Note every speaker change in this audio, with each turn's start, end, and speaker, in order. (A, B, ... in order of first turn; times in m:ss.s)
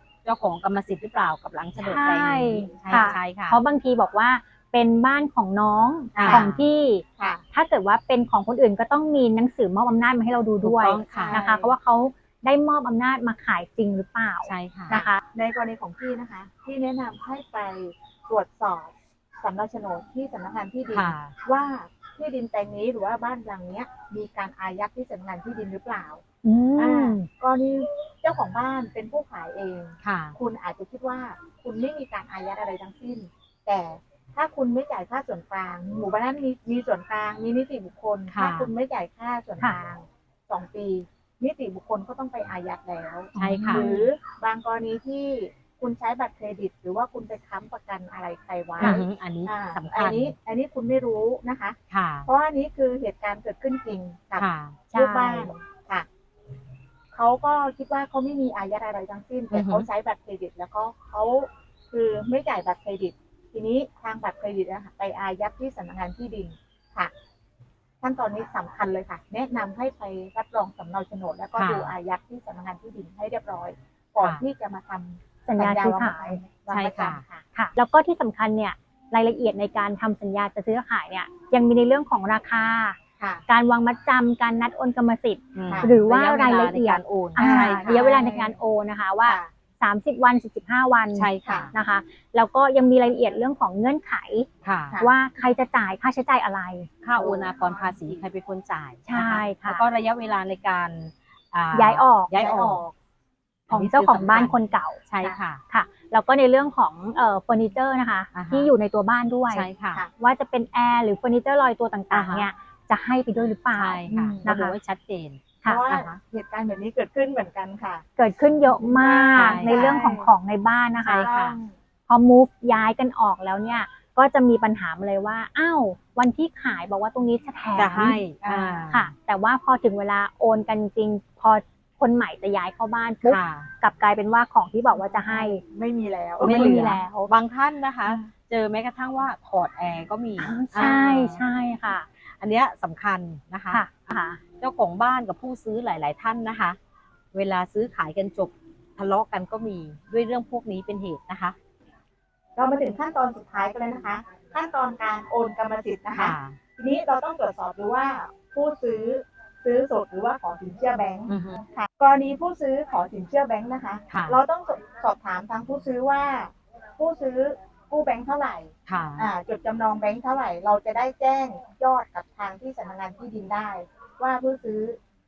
0:00.2-0:03.6 A
0:01.8-0:15.2 B
0:02.8-0:03.1 C
0:06.1-0:06.6 A
0:06.2-0:06.4 C
0:07.2-0:07.4 C
0:10.6-0:11.4 A
0:11.1-0:11.7 C
0:14.4-0:15.0 A
0:14.9-0:26.2 C
0:20.9-0:21.3 A
0:26.4-0:27.3 B
0:26.8-0:56.0 C
0:30.0-0:30.4 A
0:38.3-0:38.7 A
0:43.3-0:44.1 B
0:43.4-0:43.9 A
0:48.8-0:50.3 A
0:51.9-0:52.3 A
0:54.4-0:54.8 A
0:54.9-0:55.5 B
0:57.1-1:07.1 C
0:59.5-0:59.9 A
1:08.0-1:17.4 C
1:11.6-1:11.9 A
1:15.4-1:16.4 B
1:16.7-1:17.2 A
1:17.5-1:23.0 B
1:23.2-1:23.4 C
1:23.5-1:34.5 B
1:25.5-1:28.2 A
1:25.6-1:26.0 C
1:27.4-1:28.5 C
1:31.1-1:31.7 A
1:31.4-1:31.7 C
1:34.6-1:35.0 A
1:35.0-1:36.9 B
1:37.0-1:42.8 A
1:37.2-1:38.1 C
1:39.1-1:39.8 B
1:41.7-1:42.3 B
1:42.3-1:42.9 C
1:43.7-1:44.6 A
1:43.7-1:54.8 B
1:45.1-1:45.6 A
1:48.3-1:48.7 A
1:49.5-1:50.0 A
1:52.1-1:52.5 A
1:53.7-1:56.2 A
1:54.1-1:54.4 C
1:55.6-1:58.0 C
1:58.2-2:01.3 B
1:58.7-2:00.3 C
1:59.3-1:59.9 A
2:01.0-2:01.6 A
2:01.2-2:01.7 C
2:02.1-2:08.2 B
2:07.8-2:09.1 A
2:08.4-2:08.8 C
2:08.9-2:15.6 B
2:13.2-2:13.7 A
2:15.0-2:16.8 C
2:16.4-2:17.3 B
2:16.4-2:21.4 A
2:20.4-2:22.1 B
2:22.4-2:23.8 A
2:23.7-2:24.4 B
2:24.6-2:26.8 A
2:27.3-2:31.6 A
2:32.6-2:55.0 C
2:36.1-2:36.6 A
2:41.3-2:41.6 A
2:44.1-2:44.4 A
2:48.9-2:49.3 A